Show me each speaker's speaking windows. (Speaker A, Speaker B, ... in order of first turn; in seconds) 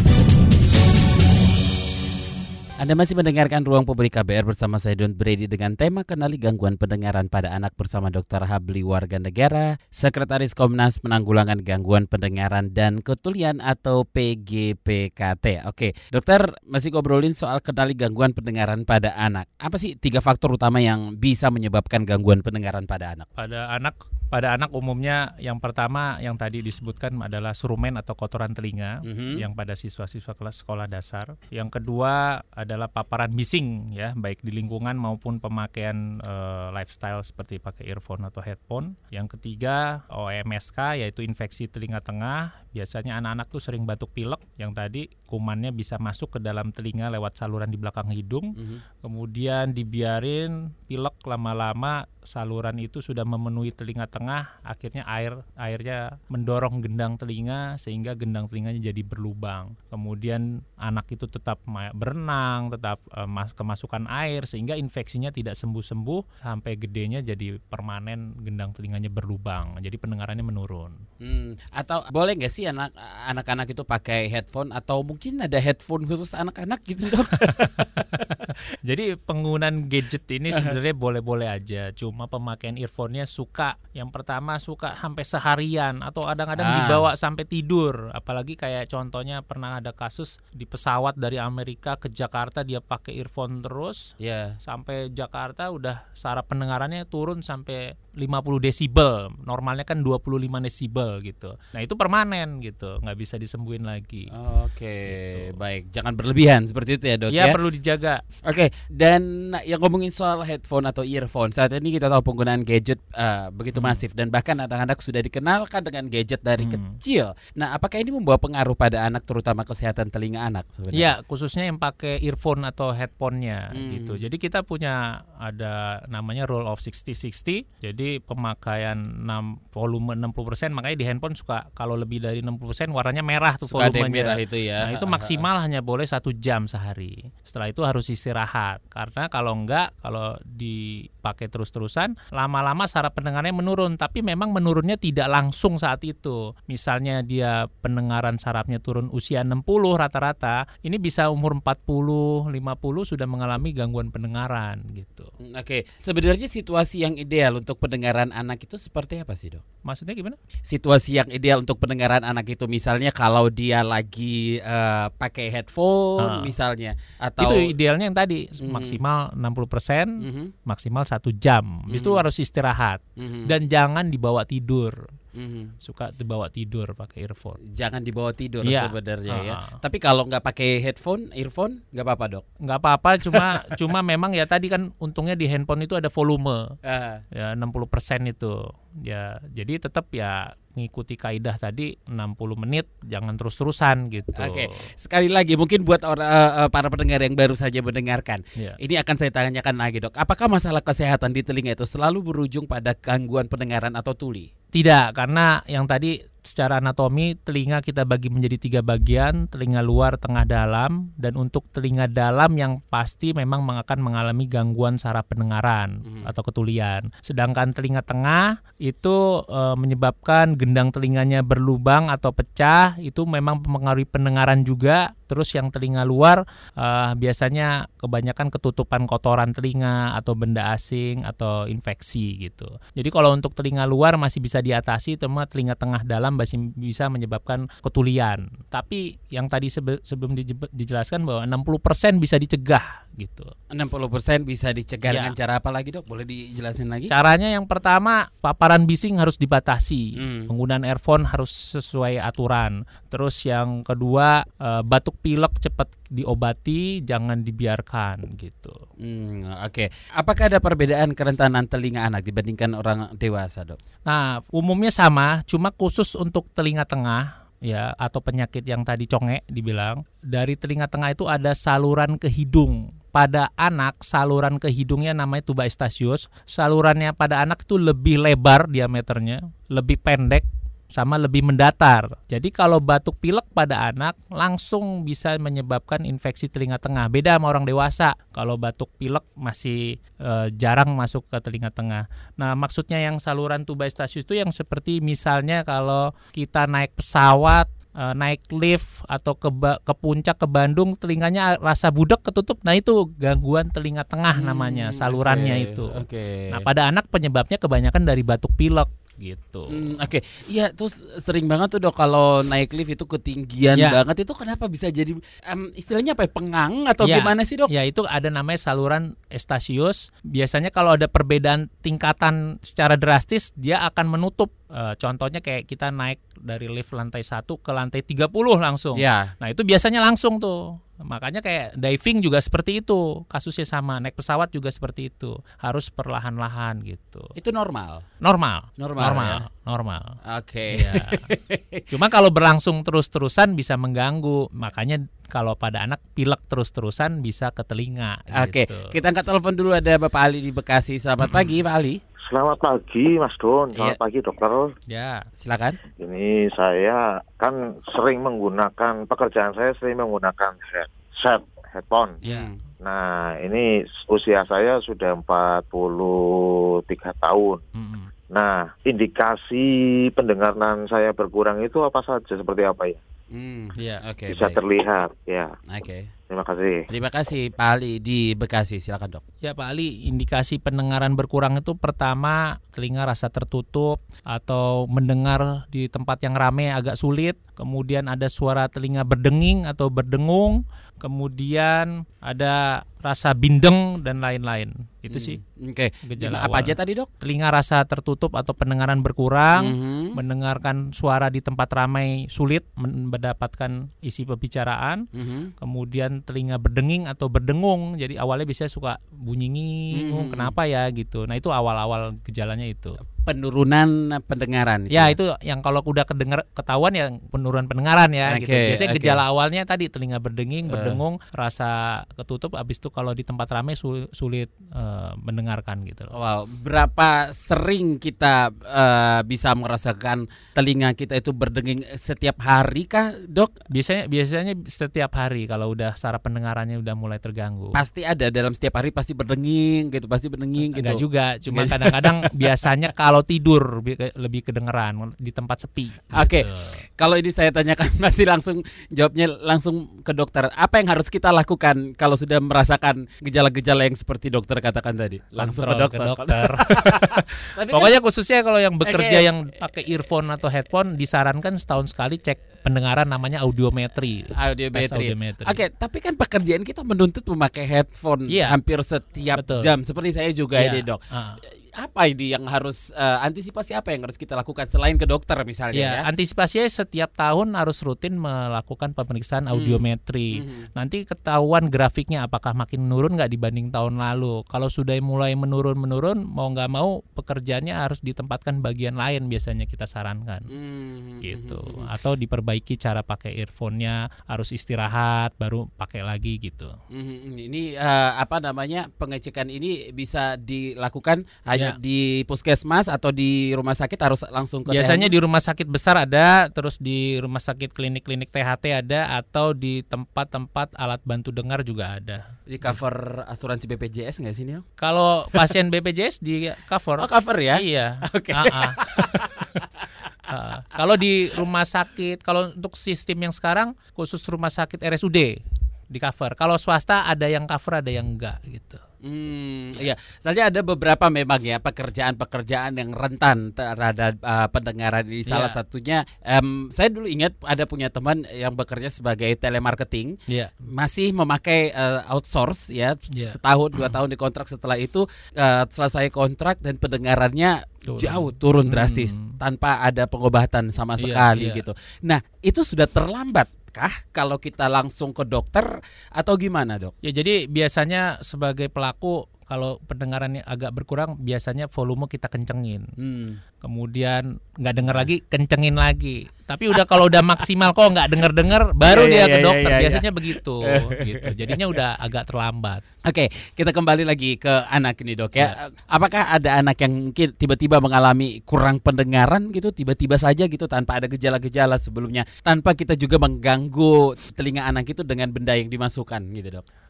Speaker A: 2.8-23.3, 29.0-29.4, 48.5-48.8, 71.2-78.5, 86.6-87.1, 94.2-94.6, 104.3-107.6, 108.4-121.1, 123.7-124.2, 133.7-135.4, 155.4-159.6, 160.7-167.7, 168.6-169.0, 170.2-170.5, 171.9-172.2, 173.2-173.5, 175.3-175.7, 177.6-182.4, 183.3-183.8, 186.8-187.2, 194.3-204.5, 216.0-216.3, 243.7-247.1, 250.2-250.5, 259.0-263.8, 304.3-306.6, 309.7-317.7, 328.9-329.3, 337.4-338.0, 338.8-339.4, 340.2-341.9, 348.3-352.0, 353.7-354.0, 355.4-355.8, 362.2-362.6, 373.3-374.6, 375.7-376.1, 376.9-379.2, 395.1-397.1, 399.6-400.2, 405.1-405.5, 409.9-410.5, 413.2-415.1, 418.3-419.2, 420.7-421.0, 426.1-433.5, 437.7-442.6, 446.1-458.0, 458.8-459.3, 464.3-471.0, 471.7-476.1, 479.5-480.7, 490.5-491.9, 496.9-505.1, 512.5-514.6, 517.0-519.7, 529.0-556.9, 563.0-563.4, 568.9-571.6, 573.0-586.6
Speaker B: 23.4-71.0, 77.5-94.1, 94.6-104.3, 105.0-105.5, 107.3-108.2, 113.7-114.0, 116.6-117.0, 120.9-155.3, 159.8-160.4, 166.2-166.5, 167.4-175.0, 175.8-177.6, 178.6-179.8, 182.6-186.7, 187.3-194.8, 204.7-243.5, 245.1-245.3, 247.1-258.8, 264.1-309.9, 313.7-314.0, 317.0-337.3, 338.2-340.1, 340.7-341.2, 341.9-348.9, 351.2-351.5, 354.9-355.3, 362.2-362.5, 367.7-368.1, 373.8-374.0, 379.4-395.4, 396.0-405.1, 405.6-413.0, 414.9-426.1, 433.7-437.8, 440.7-446.8, 455.4-465.6, 468.3-468.6, 469.3-469.7, 470.6-471.4, 475.7-490.5, 491.2-496.7, 504.7-512.2, 514.8-519.4, 520.3-525.4, 525.9-528.8, 535.3-535.6, 540.3-540.6, 543.1-543.9, 547.9-549.4, 551.0-551.6, 557.0-562.9, 563.6-572.9
Speaker C: 352.3-354.7, 356.0-362.2, 362.8-367.6, 368.3-373.0, 374.3-375.6, 376.3-376.9